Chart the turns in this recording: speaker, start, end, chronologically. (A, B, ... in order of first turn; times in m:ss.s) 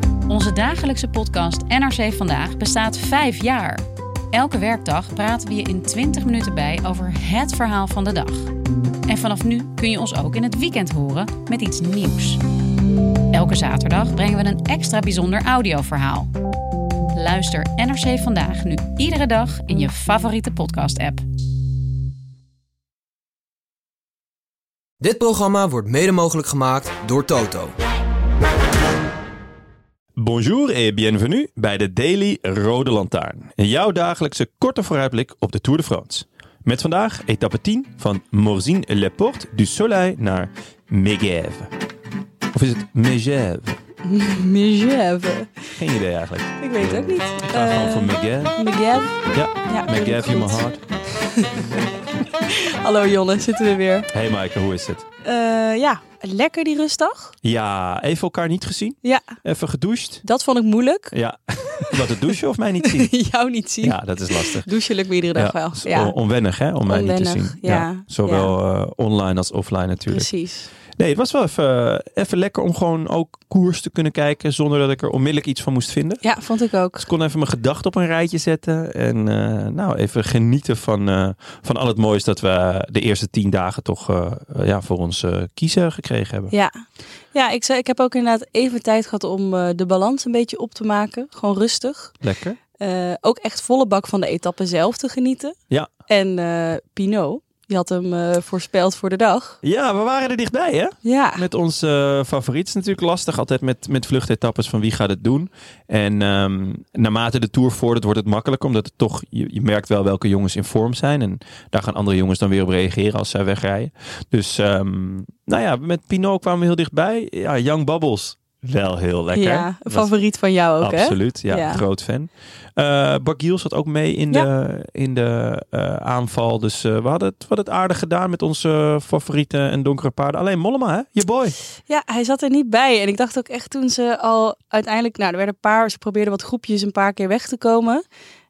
0:00.3-0:08.5 A
0:09.0-0:12.4 A
0:13.3-0:16.3 A
0:17.1-0:21.2 A
0:25.0-0:27.7 B
0:30.2-0:41.7 C
0:42.5-0:43.8 C
0:44.0-0:45.7 D
0:45.7-0:48.6 C
0:46.6-0:49.1 D
0:49.2-0:50.8 C
0:49.6-0:50.6 D
0:51.2-0:51.6 D
0:52.4-0:54.1 D
0:54.1-0:55.0 C
0:55.2-0:57.3 D
0:57.4-1:00.2 C
0:59.0-0:59.4 D
1:00.2-1:01.1 D
1:01.1-1:03.1 C
1:01.8-1:02.1 D
1:02.8-1:06.1 D
1:03.8-1:04.7 C
1:05.3-1:10.3 C
1:06.8-1:08.5 D
1:10.1-1:10.7 D
1:11.0-1:16.2 C
1:16.2-1:17.1 D
1:17.0-1:26.5 C
1:26.5-1:32.2 D
1:32.2-1:32.6 C
1:32.8-1:35.6 D
1:36.1-1:39.6 D
1:39.6-2:00.1 C
1:41.0-1:41.4 D
1:59.3-2:01.8 D
2:00.8-2:11.6 C
2:11.9-2:18.0 D